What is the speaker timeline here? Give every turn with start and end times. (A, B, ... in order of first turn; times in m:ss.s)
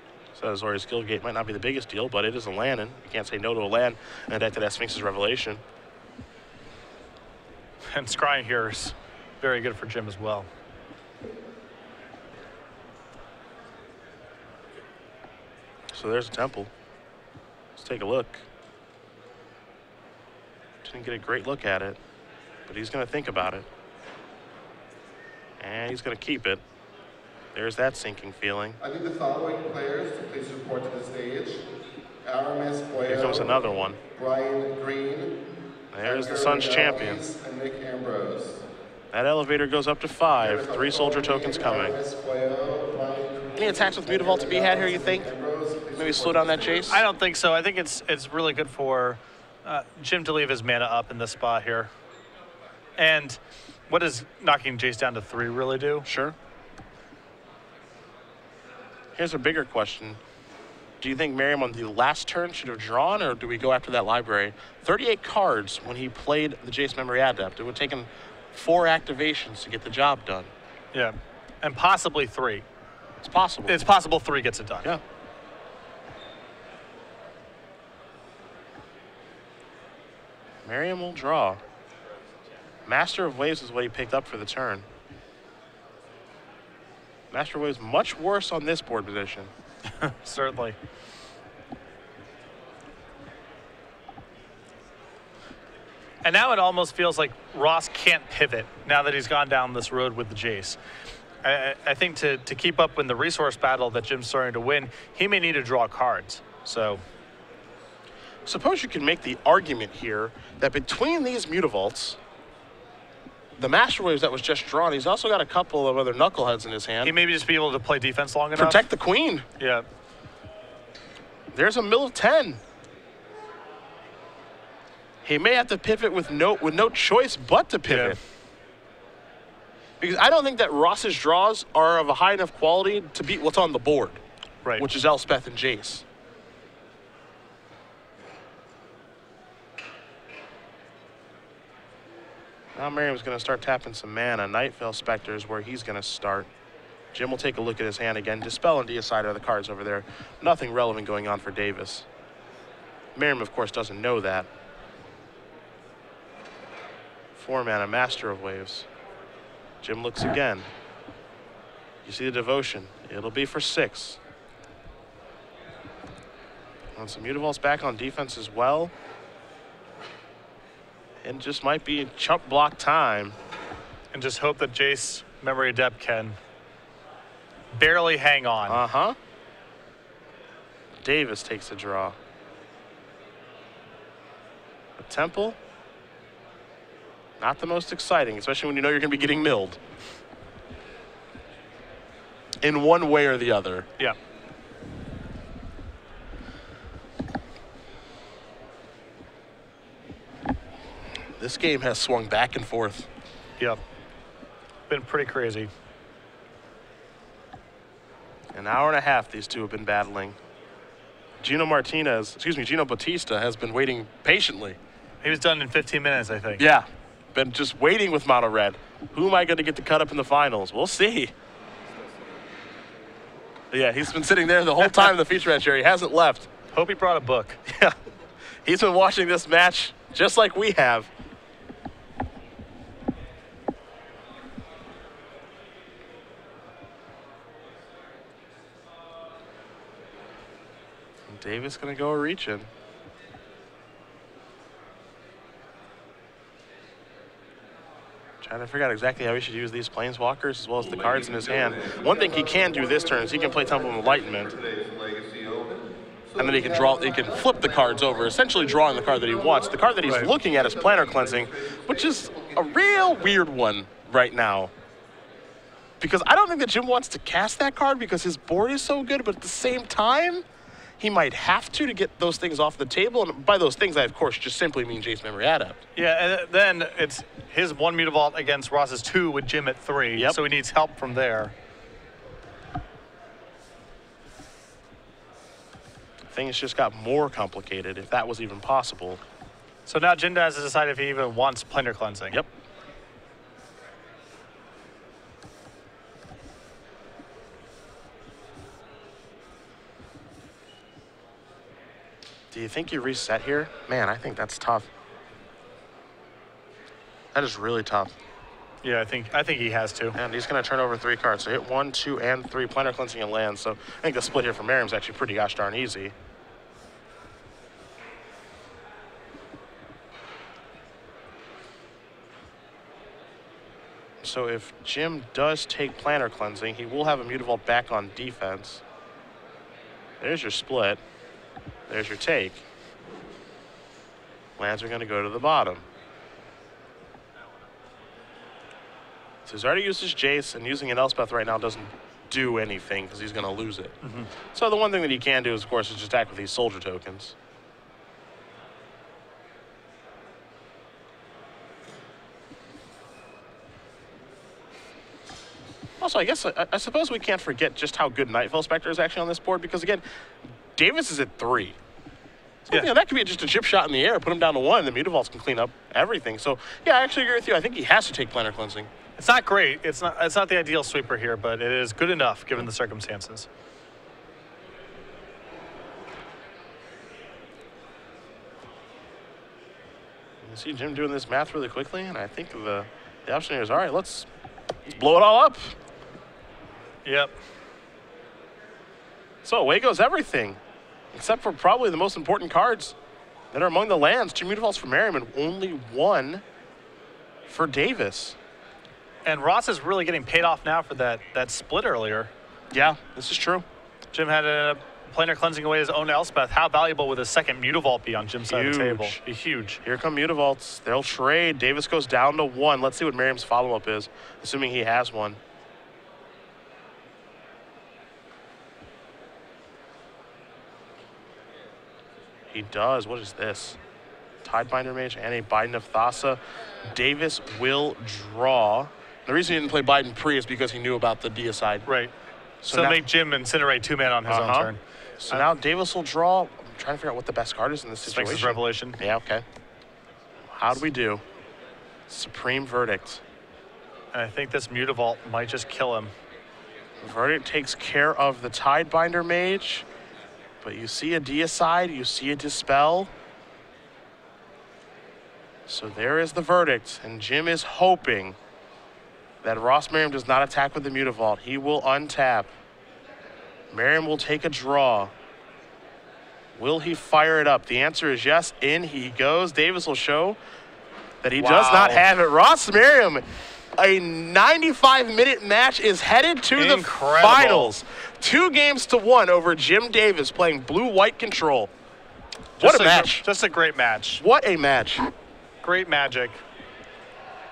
0:00.4-0:05.6 A
0:07.8-0:10.5 B
0:15.9-0:16.7 A
0:17.8-0:18.5 A
0:20.8-0:22.0 A
0:22.7-0:23.7 A
0:25.6-0:26.6 A
0:27.6-0:28.8 A
0:28.8-0:33.6 C
0:33.1-0:34.0 A
0:34.1-0:35.5 C
0:35.9-0:37.2 A
0:36.0-0:38.6 C
0:39.1-0:42.0 A
0:40.4-0:46.9 C
0:43.6-0:45.3 A
0:46.0-0:47.0 A
0:46.9-0:51.9 B
0:53.0-0:56.1 B
0:56.0-0:56.4 A
0:59.2-1:00.2 A
1:01.0-1:10.5 A
1:10.9-1:12.7 B
1:13.2-1:13.8 A
1:13.7-1:14.9 B
1:20.6-1:21.6 A
1:22.9-1:24.9 A
1:27.3-1:29.5 A
1:29.9-1:30.8 B
1:36.2-1:40.8 B
1:41.4-1:47.0 B
1:48.5-1:52.2 A
1:53.6-1:57.1 A
1:57.0-1:58.9 B
1:58.6-1:59.5 A
1:59.6-1:59.9 B
2:01.5-2:02.6 A
2:05.2-2:08.2 A
2:07.9-2:08.2 B
2:10.0-2:14.2 A
2:14.8-2:16.0 A
2:22.8-2:26.5 A
2:27.1-2:32.1 A
2:33.2-2:34.5 A
2:37.4-2:38.9 A
2:39.8-2:40.7 A
2:42.0-2:44.2 A
2:47.0-2:48.9 A
2:51.2-2:53.4 A
2:54.1-2:56.4 B
2:57.7-2:58.8 B
2:58.7-2:59.2 A
3:01.0-3:02.2 A
3:05.0-3:05.6 A
3:07.4-3:09.8 A
3:12.6-3:13.9 A
3:21.4-3:23.1 A
3:24.9-3:25.7 B
3:28.5-3:30.4 A
3:31.4-3:34.8 A
3:35.2-3:36.6 B
3:36.6-3:41.3 A
3:43.7-3:46.5 A
3:46.7-3:47.6 B
3:47.7-3:48.0 A
3:48.6-3:51.1 A
4:01.3-4:02.7 A
4:08.4-4:14.6 A
4:14.6-4:15.8 C
4:16.4-4:24.7 A
4:20.1-4:20.3 B
4:26.0-4:30.4 A
4:31.0-4:35.8 A
4:36.0-4:41.6 B
4:46.3-4:49.2 A
4:49.9-4:52.4 B
5:02.5-5:04.9 A
5:07.3-5:08.1 A
5:08.8-5:10.2 B
5:10.1-5:16.1 A
5:24.2-5:28.8 A
5:30.2-5:31.0 A
5:31.9-5:32.6 A
5:34.6-5:35.9 A
5:39.5-5:44.0 A
5:44.0-5:44.3 B
5:44.5-5:47.4 A
5:56.0-6:00.0 A
6:00.8-6:01.8 A
6:02.7-6:08.9 A
6:09.2-6:13.5 B
6:20.4-6:24.3 A
6:24.9-6:25.8 A
6:27.0-6:27.4 B
6:29.4-6:30.6 A
6:31.1-6:33.0 A
6:33.5-6:36.4 A
6:37.5-6:38.4 A
6:39.2-6:42.3 B
6:42.7-6:43.6 A
6:44.1-6:49.8 B
6:48.5-6:49.2 A
6:49.8-6:55.4 A
7:02.5-7:03.8 A
7:04.4-7:11.9 A
7:11.9-7:12.1 B
7:12.6-7:13.0 A
7:12.7-7:15.5 B
7:14.3-7:19.4 A
7:18.0-7:19.0 B
7:20.5-7:21.2 A
7:22.1-7:23.2 A
7:24.1-7:26.1 B
7:27.0-7:29.9 A
7:30.6-7:33.1 A
7:35.7-7:38.4 A
7:39.4-7:42.5 A
7:43.7-7:45.1 A
7:46.6-7:50.4 A
7:51.2-8:01.7 A
7:51.4-7:52.1 B
7:56.6-7:57.7 B
8:02.6-8:03.3 A
8:02.6-8:04.2 B
8:04.2-8:05.1 A
8:05.6-8:06.4 B